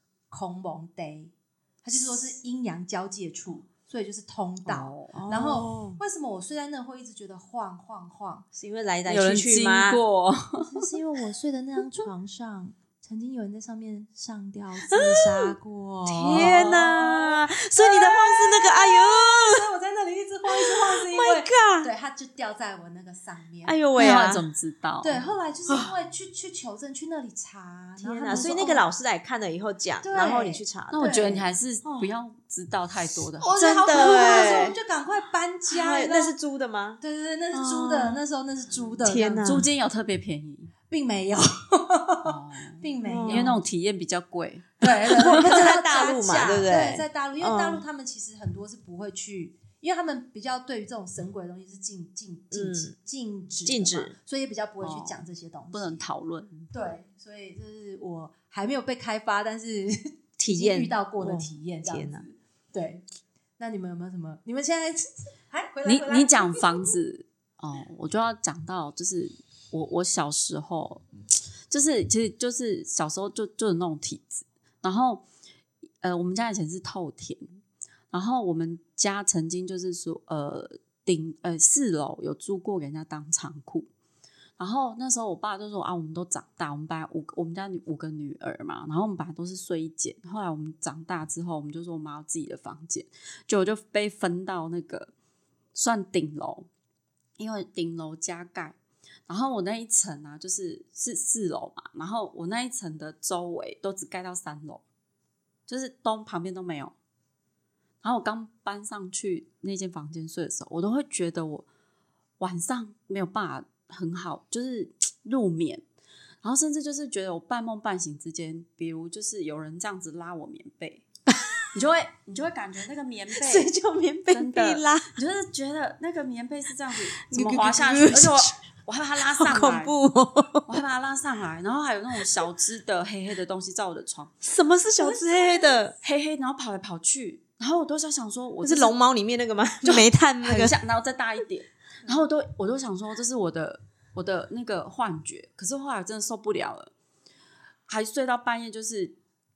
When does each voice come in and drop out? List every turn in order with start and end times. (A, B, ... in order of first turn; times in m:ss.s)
0:00.3-0:08.5 A
0:04.6-0:05.2 B
0:05.2-0:06.0 C
0:08.6-0:10.0 C
0:09.0-0:10.7 B
0:10.6-0:23.8 A
0:14.9-0:15.6 C
0:16.1-0:19.7 C
0:20.5-0:21.9 C
0:23.6-0:24.4 C
0:24.0-0:25.3 B
0:25.0-0:28.9 A
0:25.7-0:25.9 C
0:28.0-0:31.1 C
0:28.3-0:28.6 B
0:30.0-0:31.5 A
0:30.9-0:33.5 B
0:31.8-0:32.1 C
0:33.4-0:36.4 A
0:33.5-0:34.8 C
0:35.7-0:37.0 C
0:37.0-0:39.7 A
0:37.5-0:38.2 C
0:39.0-0:39.7 C
0:39.4-0:40.7 B
0:40.9-0:43.6 A
0:42.2-0:44.7 B
0:43.0-0:43.6 C
0:44.8-0:56.0 A
0:45.2-0:47.8 C
0:52.5-0:53.0 C
0:53.6-0:54.2 C
0:54.8-0:56.7 B
0:56.7-1:03.0 A
1:00.4-1:02.3 C
1:03.6-1:07.0 A
1:05.8-1:11.1 B
1:11.7-1:15.2 B
1:16.0-1:17.5 B
1:18.1-1:23.9 B
1:24.6-1:35.1 B
1:35.8-1:36.7 B
1:37.4-1:38.8 B
1:39.3-1:44.8 B
1:45.7-1:46.9 B
1:48.0-1:51.6 B
1:52.4-1:55.8 B
1:56.4-2:01.0 B
2:01.7-2:03.7 B
2:03.3-2:05.1 C
2:04.3-2:09.9 B
2:07.3-2:08.5 C
2:09.2-2:10.7 C
2:10.7-2:14.3 B
2:14.4-2:16.0 C
2:16.0-2:19.0 B
2:18.6-2:20.8 C
2:19.8-2:26.9 B
2:27.9-2:29.2 B